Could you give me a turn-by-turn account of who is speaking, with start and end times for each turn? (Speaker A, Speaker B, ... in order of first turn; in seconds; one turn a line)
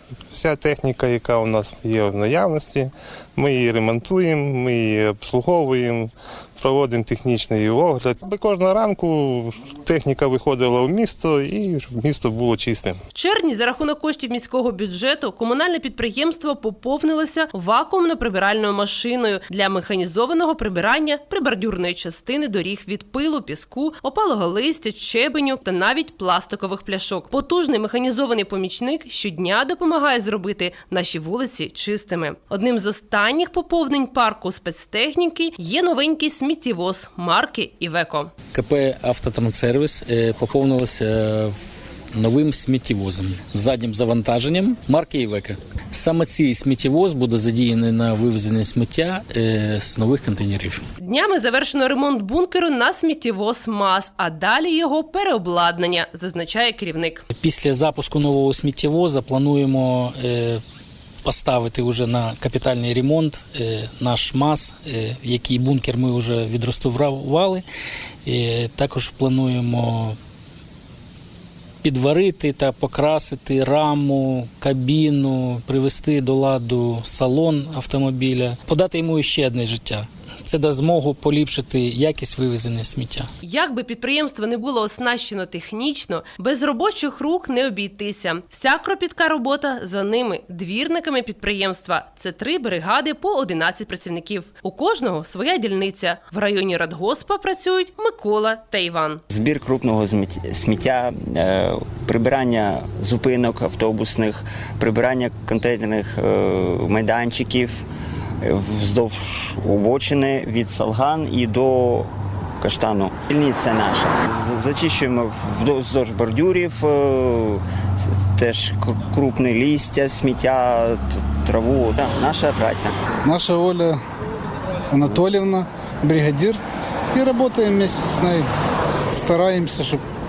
Speaker A: 0.3-13.0
Speaker B: 13.1-38.3
Speaker C: 38.5-50.8
Speaker B: 51.0-57.2
Speaker C: 57.4-60.6
Speaker C: 61.2-67.6
Speaker C: 68.2-70.2
Speaker C: 71.8-83.3
Speaker B: 83.4-99.2
Speaker D: 99.3-107.8
Speaker D: 108.4-112.1
Speaker D: 112.6-123.0
Speaker E: 123.2-124.0
Speaker E: 124.9-126.6
Speaker E: 127.1-128.5
Speaker E: 129.1-130.0